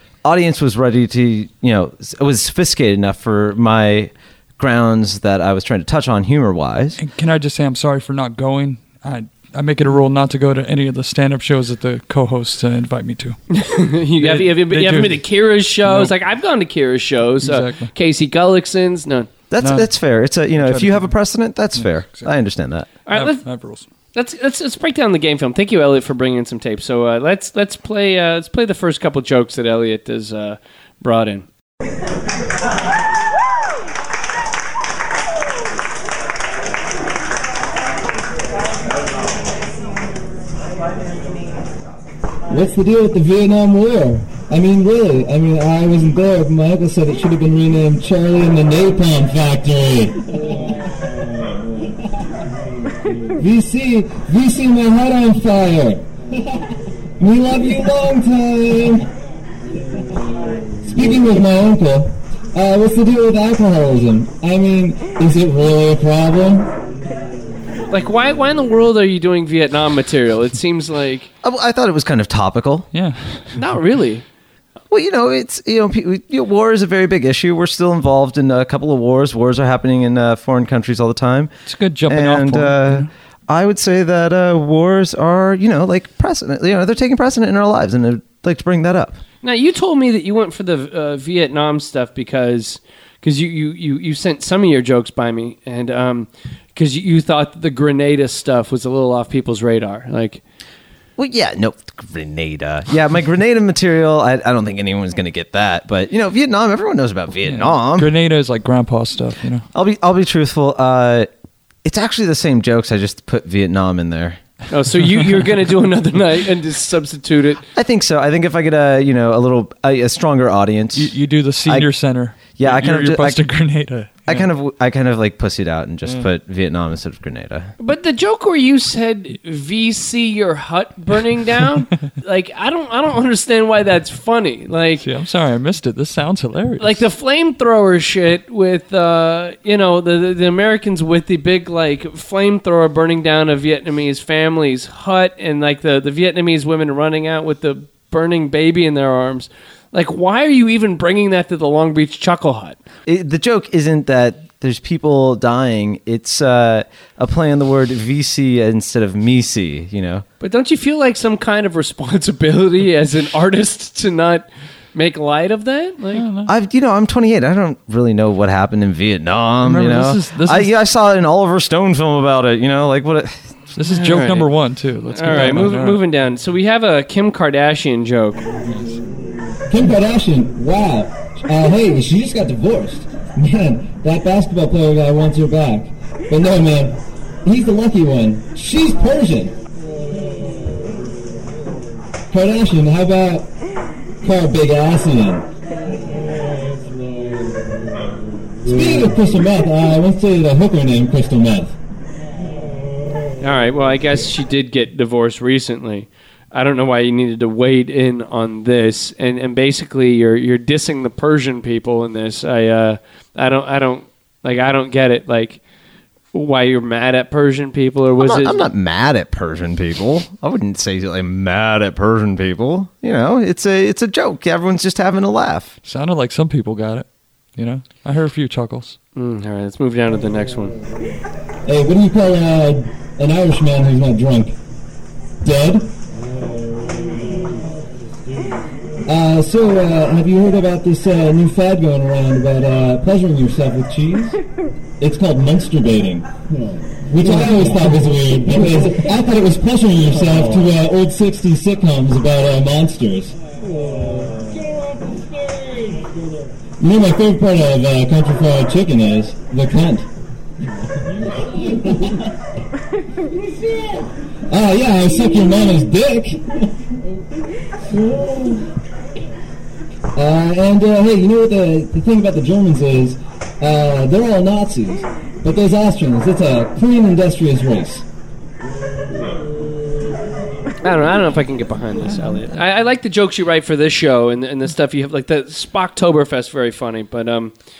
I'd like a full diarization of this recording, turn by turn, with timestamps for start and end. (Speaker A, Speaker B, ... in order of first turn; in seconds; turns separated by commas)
Speaker A: 0.2-7.0, Speaker B: 7.0-13.4, Speaker C: 13.5-19.3, Speaker B: 14.2-15.2, Speaker B: 15.8-16.1, Speaker B: 17.4-17.9, Speaker A: 19.5-22.9, Speaker B: 19.6-19.9, Speaker B: 20.6-21.1, Speaker B: 21.7-22.3, Speaker C: 23.1-23.4, Speaker B: 23.1-23.9, Speaker C: 24.1-31.4, Speaker D: 42.5-50.3, Speaker D: 53.4-56.0, Speaker D: 57.2-59.1, Speaker D: 60.8-66.7, Speaker C: 67.9-71.3, Speaker A: 71.4-72.9, Speaker B: 72.9-73.5, Speaker C: 73.5-74.2, Speaker A: 74.9-81.5, Speaker B: 81.7-83.1, Speaker A: 82.1-89.2, Speaker C: 89.4-100.4, Speaker A: 101.2-108.1, Speaker B: 107.5-109.6, Speaker A: 109.7-111.3, Speaker A: 111.8-114.4, Speaker C: 114.7-117.6, Speaker A: 117.7-121.9, Speaker B: 120.9-124.5, Speaker A: 122.5-123.4, Speaker A: 124.3-127.7, Speaker C: 127.8-135.1, Speaker B: 135.0-137.0, Speaker C: 136.8-152.8, Speaker A: 153.1-160.2, Speaker C: 160.4-166.2, Speaker B: 166.1-166.5, Speaker A: 166.4-173.5, Speaker B: 169.6-170.7, Speaker B: 173.7-176.0, Speaker C: 173.9-174.5, Speaker C: 175.1-178.4, Speaker B: 178.7-179.0, Speaker D: 179.7-189.5, Speaker D: 192.3-193.5, Speaker D: 194.2-195.5, Speaker D: 198.6-201.8, Speaker C: 203.4-215.6, Speaker C: 216.3-218.7, Speaker A: 218.2-225.7, Speaker B: 225.8-229.0, Speaker C: 229.2-230.7, Speaker D: 231.6-234.6, Speaker D: 235.4-235.9, Speaker D: 239.1-244.4, Speaker D: 245.0-246.3, Speaker D: 247.1-253.3, Speaker D: 256.8-260.1, Speaker D: 264.5-266.6, Speaker D: 268.2-268.6, Speaker D: 270.1-278.0, Speaker C: 280.8-287.5